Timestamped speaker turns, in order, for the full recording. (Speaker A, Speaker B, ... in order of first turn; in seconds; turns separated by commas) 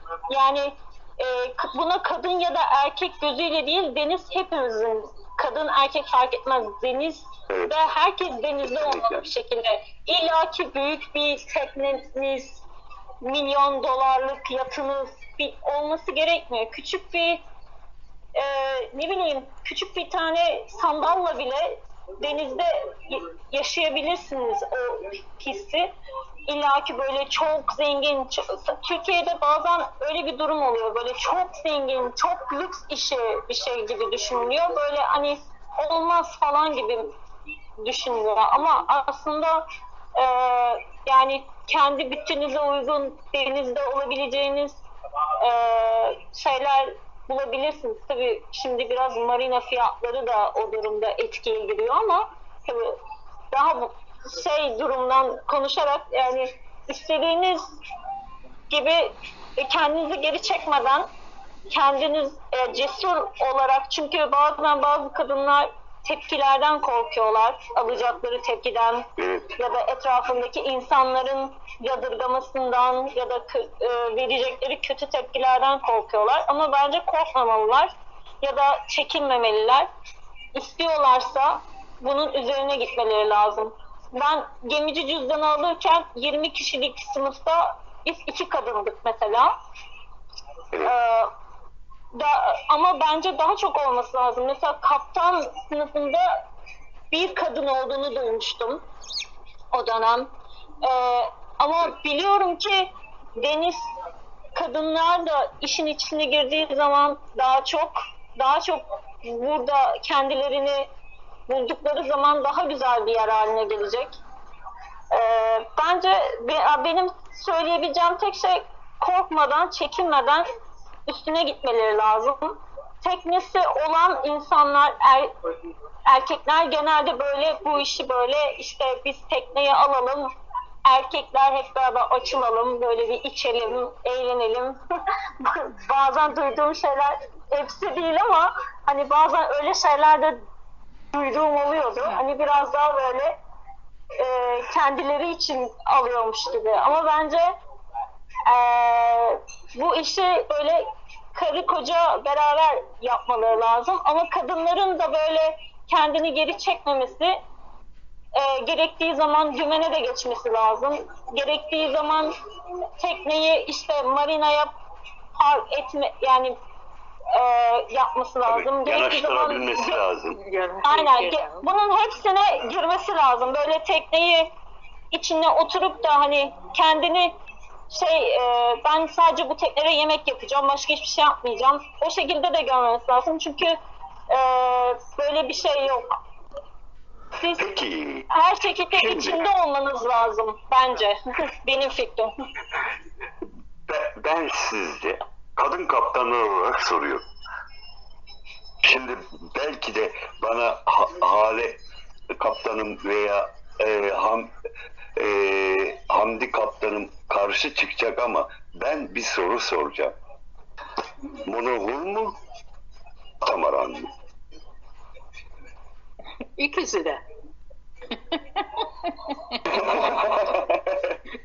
Speaker A: 0.3-12.6, Speaker B: 7.5-7.7, Speaker B: 8.8-9.2, Speaker A: 13.2-17.4, Speaker A: 18.4-25.9, Speaker A: 26.5-37.1, Speaker A: 37.8-39.6, Speaker A: 40.2-44.8, Speaker A: 45.4-53.0, Speaker A: 53.5-57.6, Speaker A: 58.7-61.1, Speaker A: 61.7-69.1, Speaker B: 69.2-69.5, Speaker A: 69.6-79.9, Speaker A: 80.5-89.5, Speaker A: 90.8-91.3, Speaker A: 92.1-96.4, Speaker A: 97.1-98.8, Speaker A: 99.7-103.8, Speaker A: 104.5-110.9, Speaker A: 111.5-114.2, Speaker A: 115.1-120.5, Speaker A: 121.1-125.3, Speaker A: 126.1-130.3, Speaker A: 130.9-134.8, Speaker A: 135.4-140.4, Speaker A: 141.1-143.3, Speaker A: 144.2-147.6, Speaker A: 148.5-157.4, Speaker A: 158.3-162.3, Speaker A: 163.0-164.7, Speaker A: 165.4-166.6, Speaker A: 167.3-170.0, Speaker B: 168.5-170.4, Speaker C: 170.4-171.7, Speaker A: 170.8-174.5, Speaker A: 175.1-177.3, Speaker A: 177.9-183.8, Speaker A: 184.3-186.2, Speaker A: 187.4-187.7, Speaker B: 187.6-188.3, Speaker A: 188.3-192.3, Speaker B: 188.9-189.4, Speaker B: 193.9-197.2, Speaker B: 198.8-201.8, Speaker B: 202.4-204.5, Speaker B: 205.2-210.2, Speaker B: 211.4-212.3, Speaker B: 213.4-214.1, Speaker C: 216.6-217.2, Speaker C: 218.3-220.1, Speaker B: 219.7-221.2